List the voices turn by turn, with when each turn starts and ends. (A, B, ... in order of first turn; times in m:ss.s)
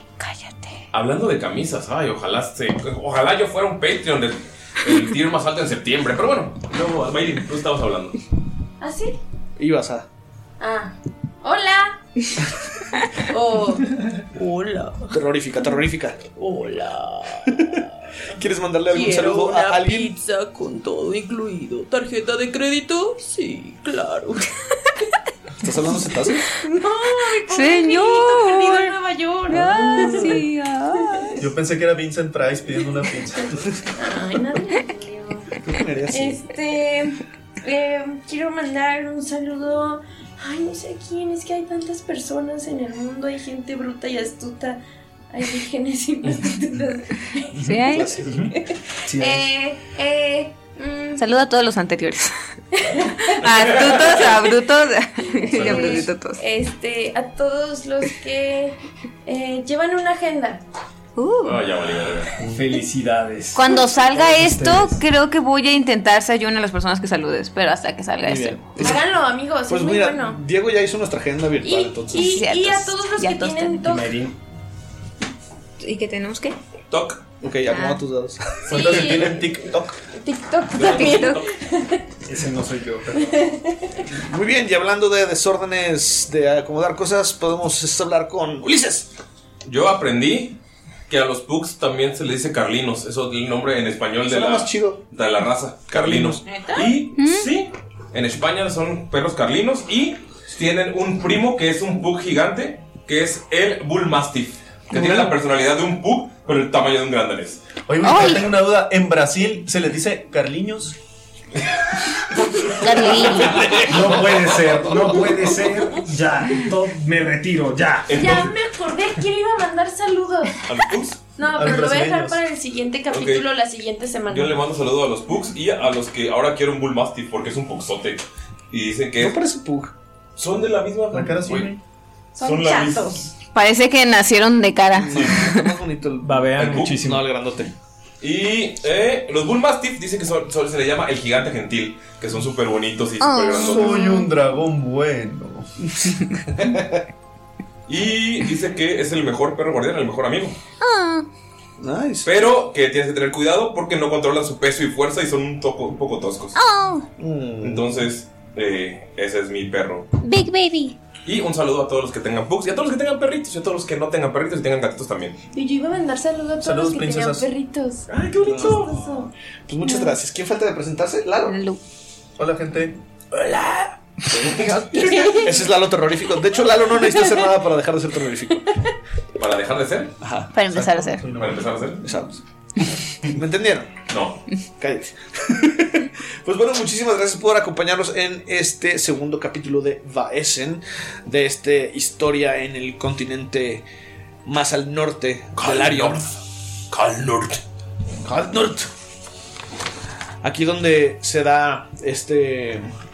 0:00.2-0:00.8 A
0:00.9-0:08.2 B
0:08.8-0:09.2 C
0:09.6-0:10.1 D
0:10.6-0:12.0 C
0:13.3-0:13.9 C
0:14.3-0:15.1 E
0:15.1-0:16.2 D
0:16.4-0:17.7 E
0:18.4-0:20.1 D
0:18.9-0:24.4 E
0:25.6-0:26.5 D
0:26.8-0:30.4 C
0:27.5-0:28.9 A
0:29.5-0:31.4 A
0:31.4-0:33.6 F
0:34.0-0:35.5 C
0:35.6-0:36.4 D
0:36.1-0:47.5 C
0:47.6-0:48.2 A
0:47.8-0:48.5 D
0:48.2-0:48.5 G
0:48.5-0:51.2 C
0:49.0-0:49.5 G
0:51.2-0:52.3 A
0:52.8-0:54.5 C
0:53.2-0:56.4 A
0:53.6-0:54.0 B
0:55.4-1:00.6 C
0:55.5-0:56.1 F
1:01.2-1:01.6 A
1:01.4-1:02.3 B
1:02.4-1:02.6 F
1:02.5-1:05.0 G
1:03.5-1:08.8 A
1:08.2-1:09.1 D
1:08.8-1:10.4 C
1:09.7-1:12.3 D
1:11.6-1:14.1 C
1:12.1-1:13.8 A
1:13.8-1:14.4 G
1:15.8-1:16.6 A
1:16.9-1:17.2 B
1:17.4-1:19.2 D
1:17.7-1:18.0 A
1:18.7-1:19.9 F
1:18.7-1:19.4 C
1:20.1-1:22.0 C
1:20.7-1:21.5 B
1:20.8-1:21.4 A
1:22.2-1:23.5 G
1:23.2-1:23.8 C
1:24.1-1:29.1 D
1:29.6-1:30.6 B
1:31.1-1:47.6 B
1:34.2-1:35.0 D
1:36.5-1:37.5 A
1:47.9-1:51.0 F
1:48.0-1:48.4 A
1:52.7-1:53.8 A
1:53.1-1:54.2 D
1:53.8-1:58.5 G
1:58.1-1:58.5 B
1:58.1-2:00.6 C
2:00.6-2:01.2 B
2:01.4-2:04.6 C
2:01.5-2:02.4 F
2:03.1-2:03.5 B
2:04.3-2:09.4 B
2:09.2-2:09.9 D
2:10.4-2:11.8 B
2:11.1-2:11.8 F
2:12.4-2:13.3 C
2:12.4-2:13.3 B
2:13.5-2:15.8 A
2:14.9-2:17.7 D
2:16.2-2:17.2 G
2:16.6-2:16.9 B
2:18.2-2:24.0 B
2:23.2-2:24.3 A
2:23.5-2:25.7 F
2:26.0-2:27.0 D
2:27.9-2:30.6 B
2:30.8-2:31.3 A
2:31.8-2:32.3 D
2:32.2-2:36.6 B
2:36.5-2:37.1 A
2:37.2-2:37.9 D
2:37.6-2:40.1 B
2:40.2-2:41.0 A
2:41.2-2:45.4 B
2:45.5-2:49.3 C
2:46.6-2:47.5 F
2:48.1-2:49.2 B
2:48.4-2:48.8 D
2:49.7-2:51.6 D
2:49.8-2:50.2 A
2:51.4-2:51.8 A
2:52.4-2:53.0 F
2:53.4-2:58.7 D
2:54.4-2:55.4 B
2:55.0-2:55.7 C
2:59.4-3:00.1 B
3:00.2-3:00.5 D
3:00.5-3:01.2 A
3:00.7-3:01.7 F
3:01.3-3:02.0 B
3:02.0-3:02.4 D
3:03.3-3:04.0 D
3:04.1-3:04.4 B
3:04.8-3:13.8 D
3:14.4-3:16.3 D
3:15.6-3:17.6 B
3:18.2-3:18.9 D
3:20.4-3:22.9 D